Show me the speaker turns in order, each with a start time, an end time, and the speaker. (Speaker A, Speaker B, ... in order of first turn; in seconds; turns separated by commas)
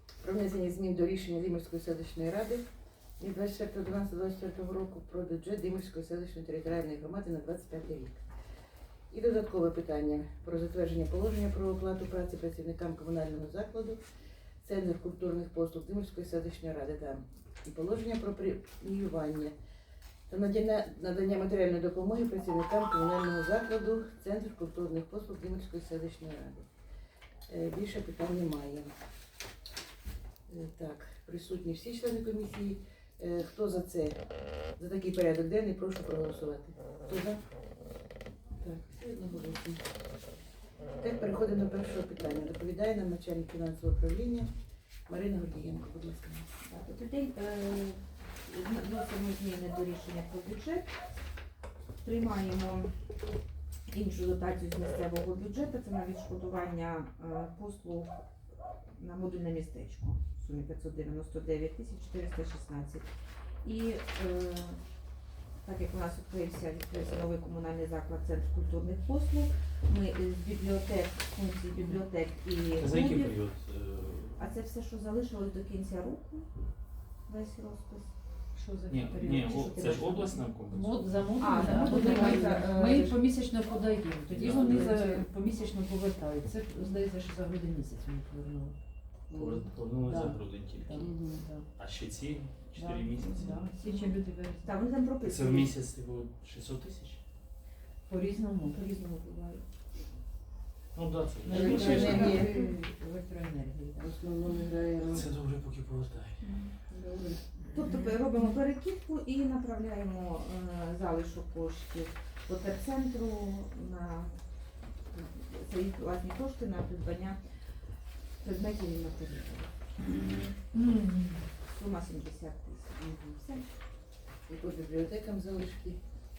Speaker A: 0.2-2.7, Speaker A: 3.2-8.3, Speaker A: 9.1-14.0, Speaker A: 14.6-19.6, Speaker A: 20.3-26.7, Speaker A: 27.5-29.0, Speaker A: 30.5-34.2, Speaker A: 34.8-37.4, Speaker A: 38.6-39.8, Speaker A: 41.0-44.5, Speaker A: 45.1-46.6, Speaker B: 46.6-51.0, Speaker B: 52.0-52.9, Speaker B: 53.9-58.1, Speaker B: 59.0-63.1, Speaker B: 63.6-64.8, Speaker B: 65.6-73.4, Speaker C: 71.7-72.0, Speaker D: 72.8-74.5, Speaker B: 74.4-76.5, Speaker B: 77.2-78.2, Speaker C: 78.5-88.8, Speaker D: 78.9-81.6, Speaker B: 81.4-83.2, Speaker A: 81.9-82.5, Speaker D: 84.3-84.9, Speaker B: 84.3-85.3, Speaker A: 89.3-89.7, Speaker D: 89.3-91.2, Speaker C: 90.0-91.7, Speaker A: 91.0-91.5, Speaker D: 91.8-93.6, Speaker C: 92.8-94.7, Speaker B: 93.2-95.8, Speaker D: 95.2-97.2, Speaker C: 98.1-99.1, Speaker B: 99.0-99.6, Speaker D: 100.9-102.4, Speaker C: 101.4-104.2, Speaker A: 101.5-102.8, Speaker B: 101.7-102.8, Speaker A: 104.0-105.3, Speaker D: 105.0-106.6, Speaker B: 106.4-106.8, Speaker A: 106.9-107.4, Speaker B: 107.7-120.5, Speaker C: 107.7-108.2, Speaker C: 120.7-121.5, Speaker B: 121.6-123.7, Speaker A: 123.0-123.4, Speaker A: 124.5-126.0